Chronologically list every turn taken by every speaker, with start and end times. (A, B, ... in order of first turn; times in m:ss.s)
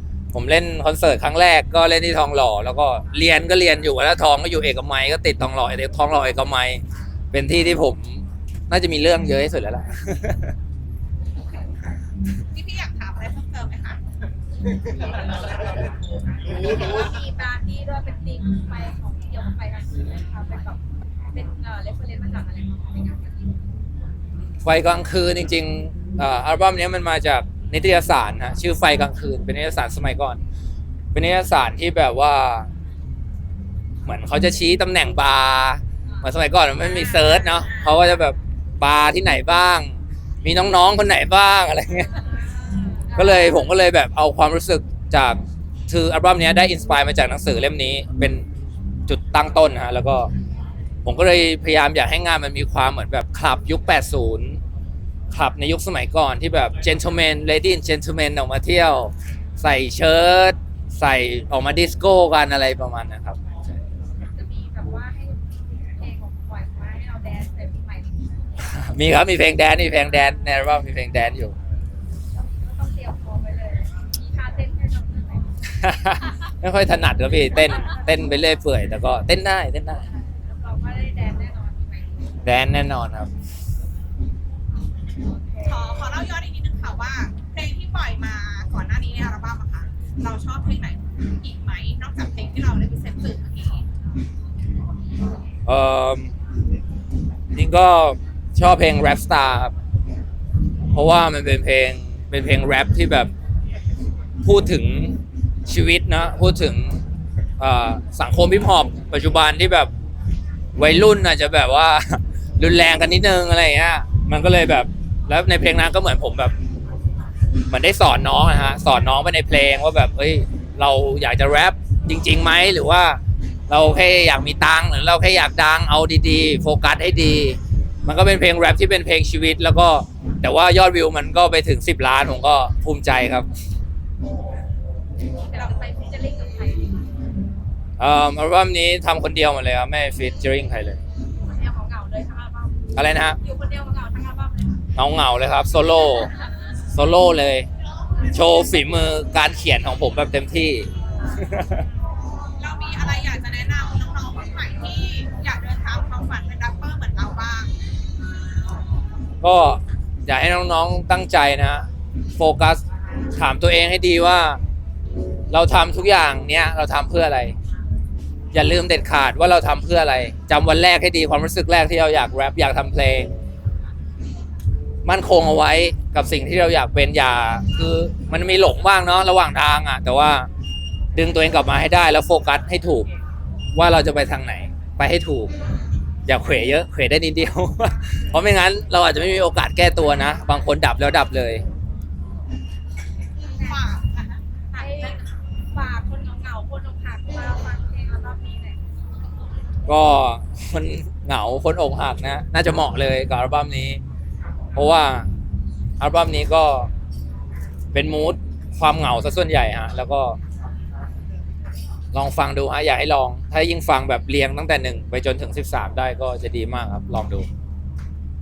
0:00.3-0:10.5 A
0:12.5-0:14.0 B
0:16.5-0:20.8 C
0:21.3-0:23.6 C
0:24.6-0:30.4 A
0:31.1-0:32.7 A
0:34.0-0:42.1 A
0:36.8-0:37.6 C
0:37.4-0:37.8 B
0:42.0-0:43.8 C
0:43.2-0:48.5 A
0:49.1-0:50.3 A
0:51.0-0:54.6 A
0:55.3-1:03.4 A
1:04.4-1:08.2 C
1:08.6-1:11.6 A
1:12.4-1:15.6 C
1:15.8-1:20.0 A
1:17.7-1:18.0 C
1:20.1-1:22.4 C
1:22.4-1:23.3 A
1:25.2-1:25.9 C
1:25.6-1:33.9 B
1:35.7-1:36.3 A
1:37.5-1:39.7 A
1:40.9-1:43.3 A
1:44.4-1:47.0 A
1:47.6-1:49.9 A
1:50.8-1:56.5 A
1:57.7-2:13.5 A
2:15.4-2:16.9 C
2:18.0-2:21.0 A
2:21.4-2:24.8 C
2:23.0-2:23.4 A
2:25.0-2:26.3 A
2:26.1-2:26.4 C
2:26.9-2:27.7 A
2:28.3-2:31.8 A
2:32.6-2:37.7 B
2:39.4-2:42.8 A
2:43.4-2:44.6 A
2:45.5-2:47.6 A
2:48.5-2:53.3 A
2:55.0-3:00.5 A
3:01.2-3:03.1 A
3:03.8-3:05.5 A
3:06.3-3:11.6 A
3:13.5-3:15.2 B
3:13.6-3:13.8 C
3:14.8-3:15.2 C
3:15.7-3:18.8 C
3:19.9-3:24.0 A
3:24.8-3:25.3 A
3:26.0-3:26.9 A
3:27.9-3:30.4 A
3:32.1-3:37.5 A